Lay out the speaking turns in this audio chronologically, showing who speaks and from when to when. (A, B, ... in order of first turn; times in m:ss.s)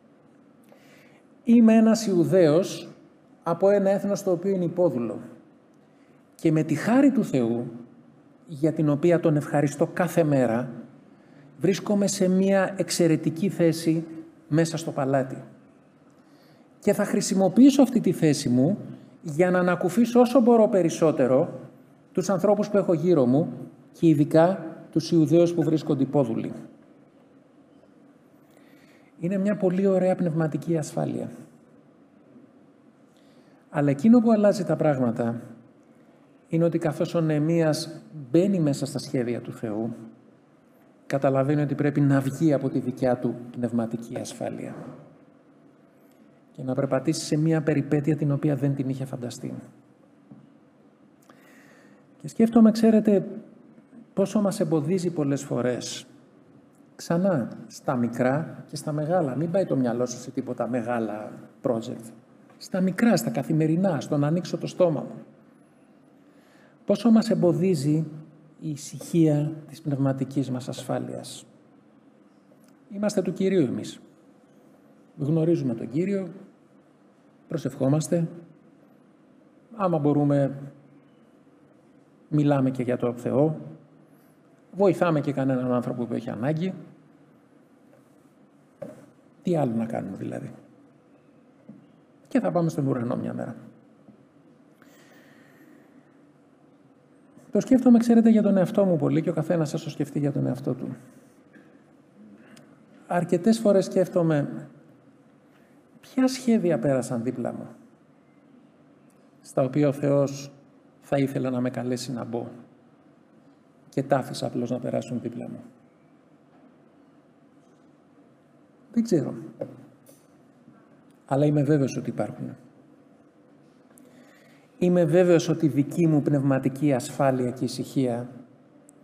0:01.4-0:02.9 A
0:03.4-0:05.2 A
0:06.4-0:07.7 A
0:08.5-0:10.7 A
0:11.6-0:15.4 A
0:16.8-0:21.5 A
0:22.1-0:26.5 A
0:29.2-0:31.3 A
0:33.7-0:35.4 A
0:36.5-0:39.9 A
0:41.1-0:44.8 A
0:46.5-0:49.6 A
0:52.2-0:53.4 A
0:54.1-0:56.1 A
0:57.0-1:05.2 A
1:06.9-1:08.1 A
1:08.6-1:11.4 A
1:12.9-1:14.0 A
1:15.2-1:16.3 A
1:17.5-1:18.3 A
1:19.7-1:20.5 A
1:22.3-1:23.6 A
1:24.7-1:26.7 A
1:29.4-1:30.5 A
1:32.3-1:33.6 A
1:37.5-1:40.9 A
1:43.1-1:44.6 A
1:46.0-1:47.7 A
1:49.4-1:52.5 A
1:53.9-1:55.6 A
1:58.9-1:59.4 A
2:01.3-2:02.6 A
2:04.8-2:08.3 A